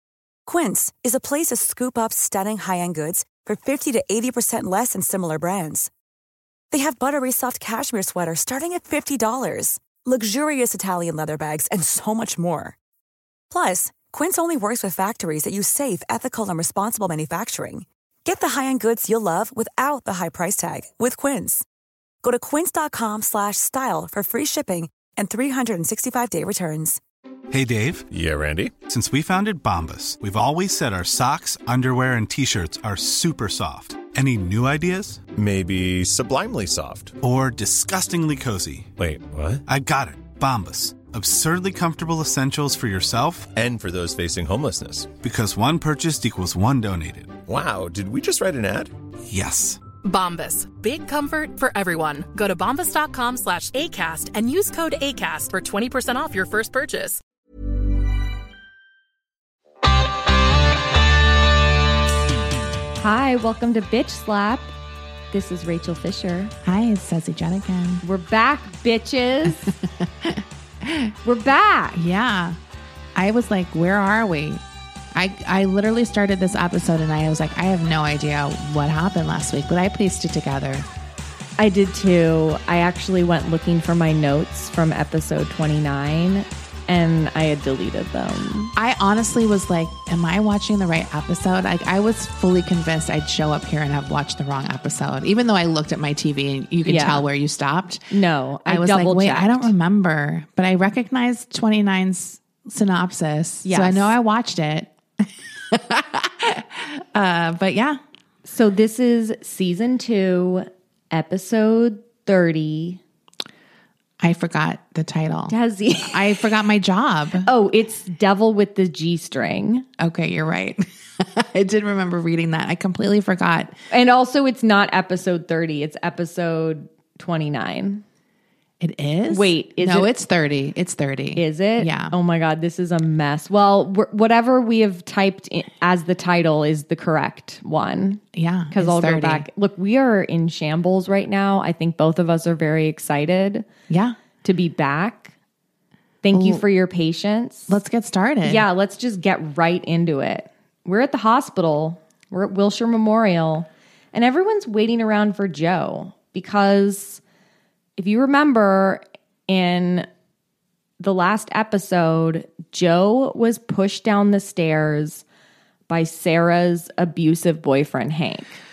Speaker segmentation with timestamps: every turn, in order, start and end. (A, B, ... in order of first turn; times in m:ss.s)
0:00.5-0:05.9 A
0:06.7-0:12.8 A
0:13.5-0:21.6 A
0:22.2-0:27.0 A
0:27.5-0:28.1 B
0:28.1-0:28.8 C
0:28.9-0:35.2 B
0:35.3-0:37.2 C
0:37.2-0:38.9 B
0:39.0-0:39.6 C
0:39.7-0:43.5 B
0:43.6-0:45.1 C
0:45.2-0:47.4 B
0:47.5-0:48.9 C
0:49.3-0:49.8 B
0:50.0-0:57.2 D
1:03.0-1:04.7 E
1:05.3-1:06.5 E
1:06.6-1:08.0 F
1:08.0-1:09.7 E
1:09.5-1:11.1 F
1:11.2-1:12.0 E
1:12.0-1:12.6 F
1:13.2-1:14.6 F
1:15.1-1:20.9 F
1:21.6-1:28.8 E
1:28.8-1:38.1 F
1:36.9-1:37.3 E
1:38.1-1:39.7 E
1:38.7-1:48.0 F
1:43.6-1:44.1 E
1:48.4-1:53.0 E
1:54.2-1:57.5 F
1:55.5-1:56.6 E
1:57.4-1:59.9 E
2:00.0-2:03.8 F
2:03.9-2:08.0 E
2:08.8-2:12.1 F
2:09.3-2:10.1 E
2:11.4-2:23.7 E
2:18.3-2:19.5 F
2:23.9-2:24.2 F
2:24.4-2:25.3 E
2:26.2-2:27.8 E
2:26.3-2:26.6 F
2:27.7-2:28.6 F
2:28.4-2:37.2 E
2:38.0-2:40.1 E
2:41.0-2:45.2 E
2:45.9-2:48.5 E